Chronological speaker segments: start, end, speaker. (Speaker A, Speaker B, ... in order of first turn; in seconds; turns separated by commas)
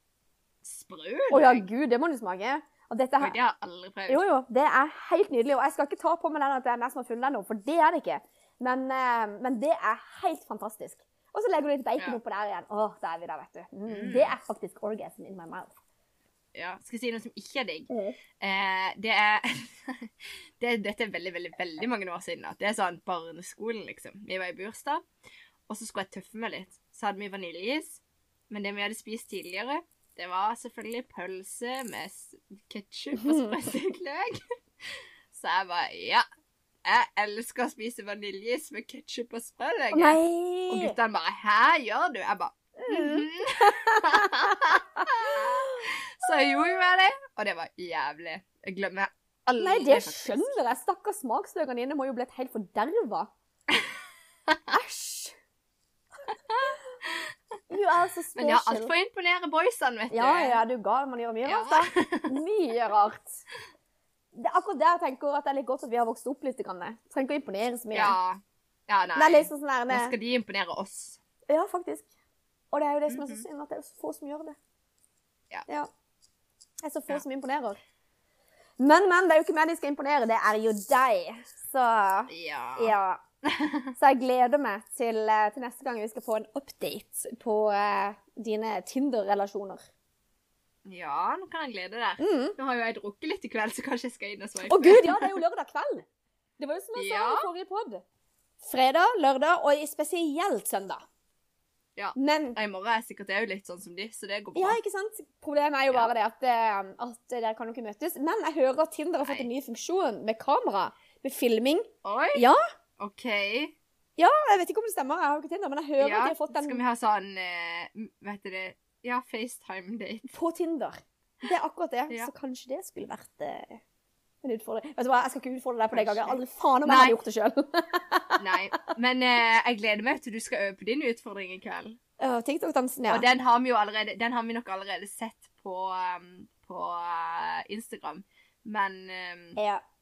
Speaker A: 0.6-1.7, Speaker B: 1.3-3.4, Speaker A: 3.2-4.2, Speaker B: 4.1-15.8, Speaker A: 13.9-14.3, Speaker A: 16.5-17.9, Speaker B: 17.9-18.2, Speaker A: 18.4-25.0, Speaker A: 25.7-36.2, Speaker B: 33.2-33.5, Speaker A: 36.9-50.5, Speaker B: 39.9-41.0, Speaker B: 42.8-45.9, Speaker B: 49.6-53.3, Speaker B: 54.7-55.4, Speaker B: 56.6-57.0, Speaker A: 57.0-57.3, Speaker B: 57.7-58.9, Speaker A: 58.4-60.6, Speaker B: 60.1-63.4, Speaker A: 61.5-62.3, Speaker B: 64.3-68.2, Speaker A: 67.9-71.2, Speaker B: 69.2-70.1, Speaker B: 71.5-72.1, Speaker B: 72.7-74.6, Speaker A: 73.1-73.5, Speaker B: 76.8-77.8, Speaker B: 78.8-83.2, Speaker A: 82.3-82.9, Speaker A: 83.5-83.9, Speaker B: 84.0-89.8, Speaker A: 90.9-95.3, Speaker B: 92.2-92.6, Speaker B: 94.6-96.1, Speaker B: 96.6-98.0, Speaker A: 97.0-97.5, Speaker B: 98.6-101.0, Speaker A: 102.0-104.8, Speaker B: 102.2-102.6, Speaker B: 104.5-112.6, Speaker A: 112.0-112.5, Speaker A: 113.0-113.7, Speaker B: 114.2-116.8, Speaker A: 116.0-120.3, Speaker B: 120.3-123.8, Speaker B: 124.4-128.9, Speaker A: 125.9-127.2, Speaker A: 128.4-132.0, Speaker B: 132.2-133.3, Speaker A: 133.1-139.6, Speaker B: 139.6-139.8